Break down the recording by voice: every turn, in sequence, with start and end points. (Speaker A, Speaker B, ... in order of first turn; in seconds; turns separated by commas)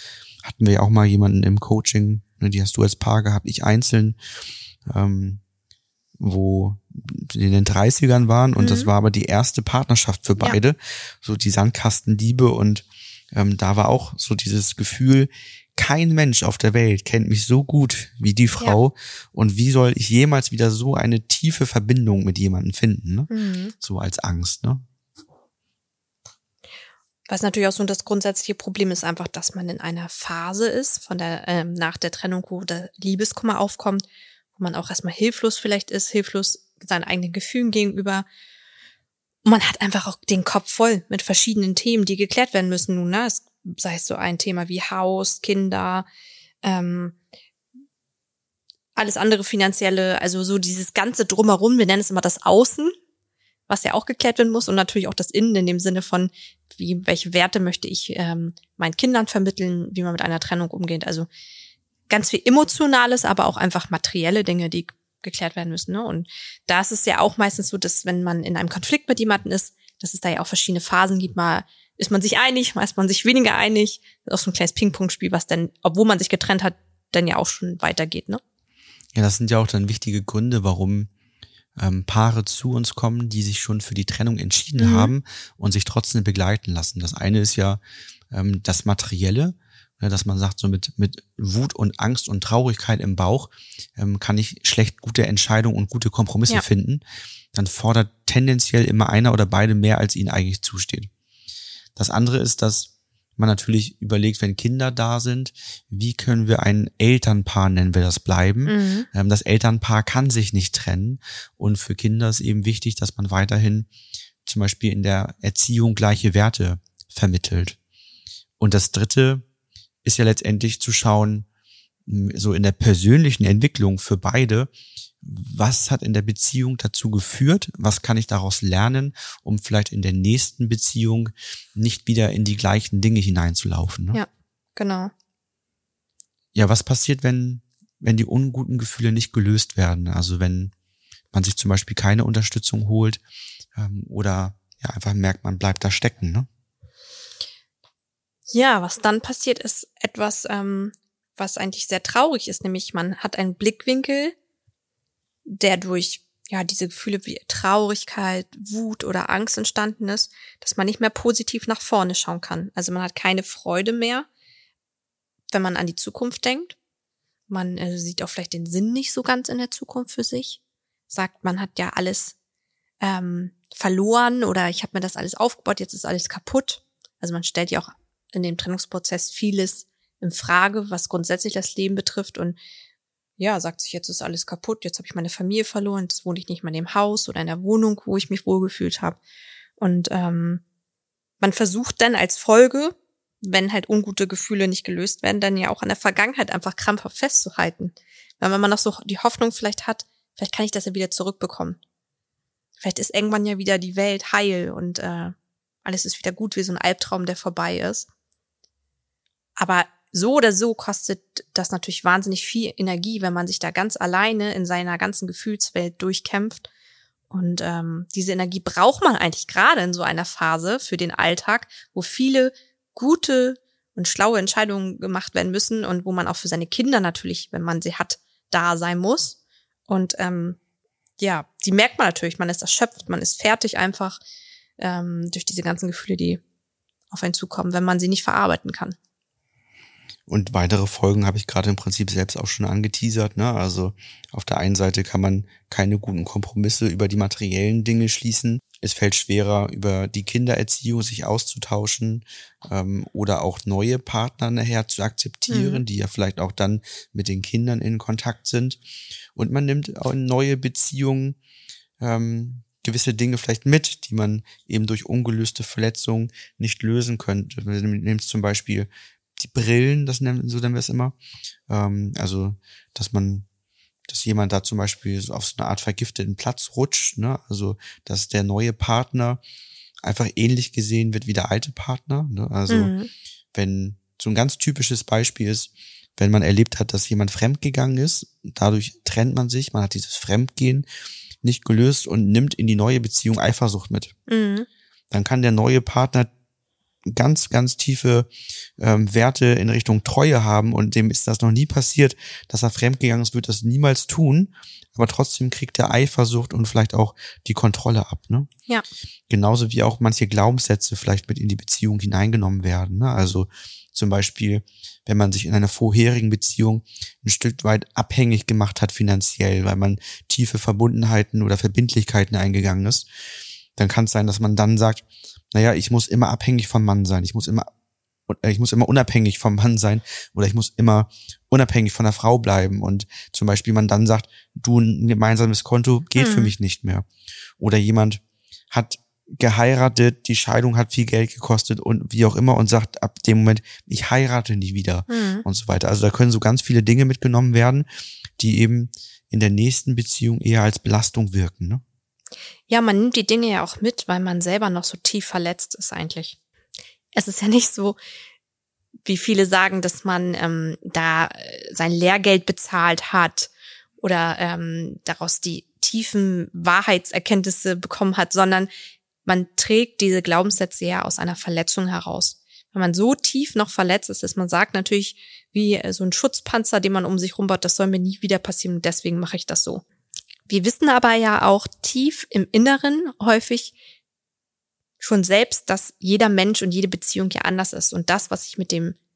Speaker A: 0.4-4.2, Speaker A: 4.8-5.4, Speaker A: 6.2-24.8, Speaker B: 8.6-8.9, Speaker B: 23.3-23.7, Speaker B: 27.3-38.2, Speaker B: 39.4-46.0, Speaker B: 46.6-47.2, Speaker B: 49.0-52.9, Speaker B: 53.7-61.3, Speaker B: 62.1-78.4, Speaker A: 79.1-81.1, Speaker A: 81.8-87.8, Speaker B: 84.8-85.1, Speaker A: 88.3-97.0, Speaker A: 97.5-101.1, Speaker A: 102.0-113.9, Speaker B: 108.6-109.1, Speaker A: 114.4-117.8, Speaker A: 118.6-119.4, Speaker A: 120.0-121.5, Speaker A: 122.1-124.7, Speaker A: 125.2-134.2, Speaker B: 134.1-135.1, Speaker A: 136.5-140.7, Speaker A: 141.3-143.2, Speaker A: 143.7-146.5, Speaker B: 148.5-154.3, Speaker B: 155.4-164.3, Speaker B: 165.5-166.8, Speaker B: 167.5-170.6, Speaker B: 171.1-172.3, Speaker B: 173.0-182.6, Speaker B: 183.4-189.2, Speaker B: 189.8-190.6, Speaker B: 191.4-201.8, Speaker B: 202.8-208.1, Speaker B: 209.6-216.7, Speaker B: 217.3-229.4, Speaker B: 229.9-230.6, Speaker B: 231.2-234.2, Speaker B: 234.8-236.4, Speaker B: 237.1-238.9, Speaker A: 240.3-258.8, Speaker B: 255.5-255.8, Speaker A: 259.4-261.4, Speaker A: 262.0-271.1, Speaker A: 271.7-273.4, Speaker A: 274.1-279.4, Speaker A: 280.0-282.9, Speaker B: 282.7-283.1, Speaker A: 283.5-290.9, Speaker A: 291.4-294.1, Speaker B: 294.3-294.7, Speaker A: 295.1-296.3, Speaker A: 297.1-298.3, Speaker A: 298.8-308.5, Speaker A: 309.3-323.0, Speaker A: 323.8-327.7, Speaker A: 328.3-337.1, Speaker B: 336.1-336.5, Speaker A: 337.6-347.9, Speaker B: 345.1-345.4, Speaker A: 348.4-351.8, Speaker B: 352.7-356.4, Speaker B: 357.1-358.0, Speaker B: 359.0-368.7, Speaker B: 369.2-379.8, Speaker B: 380.5-383.7, Speaker B: 385.0-388.9